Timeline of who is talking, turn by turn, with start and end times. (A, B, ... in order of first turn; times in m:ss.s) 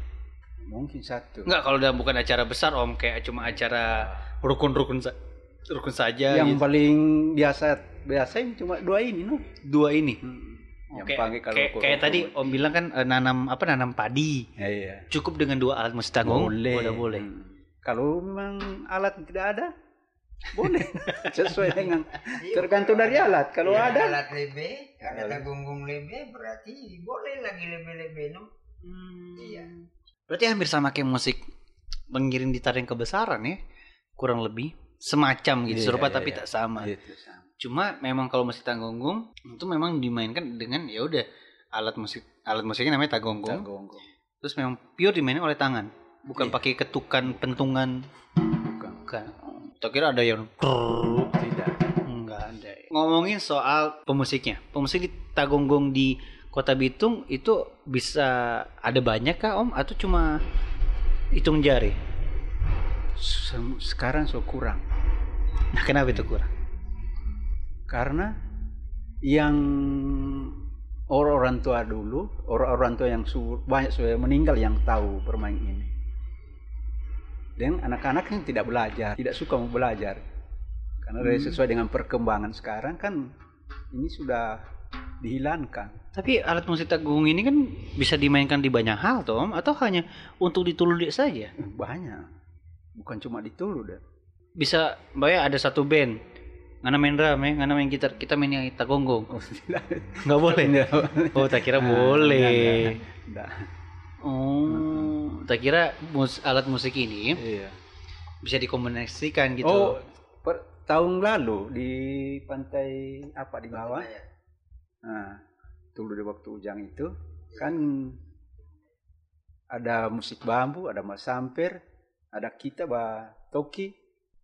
0:00.7-0:01.5 A
0:01.4-0:05.2 B
0:05.7-0:06.6 B
0:06.3-0:09.4 A
0:09.6-0:10.2 B
0:10.2-0:12.6 A
0:10.9-0:14.5 B
0:14.6-0:15.1 A
0:15.1-0:17.3 B
0:16.2-0:19.7 A
0:20.5-0:24.2 A
0:21.0-0:21.6 B
0:22.3-0:28.5 C
0:25.0-0:25.5 A
0:28.8-0:31.4 B
0:29.4-0:29.7 C
0:32.1-0:33.6 B
0:34.2-0:36.9 B
0:35.7-0:37.5 A
0:37.6-0:43.7 B
0:43.4-0:44.0 A
0:44.4-0:48.0 B
0:48.6-0:49.0 A
0:49.1-0:51.3 B
0:51.3-0:51.8 A
0:52.0-1:00.4 B
1:01.3-1:02.0 B
1:03.2-1:04.8 A
1:05.7-1:06.5 B
1:07.9-1:08.3 A
1:09.2-1:10.6 A
1:11.1-1:15.9 A
1:17.6-1:20.2 A
1:21.0-1:23.3 A
1:21.2-1:21.6 B
1:23.9-1:24.6 A
1:25.2-1:26.0 A
1:26.1-1:31.5 B
1:31.6-1:32.3 A
1:33.0-1:34.0 A
1:34.6-1:36.2 B
1:36.8-1:39.3 B
1:39.3-1:43.7 A
1:40.2-1:43.0 B
1:44.2-1:47.4 B
1:44.7-1:45.2 A
1:47.4-1:47.8 A
1:48.4-1:50.0 B
1:49.6-1:54.1 A
1:53.7-1:54.2 C
1:55.0-1:55.4 A
1:56.0-1:58.2 A
1:57.5-1:57.8 C
1:59.7-2:01.8 A
2:02.3-2:04.0 A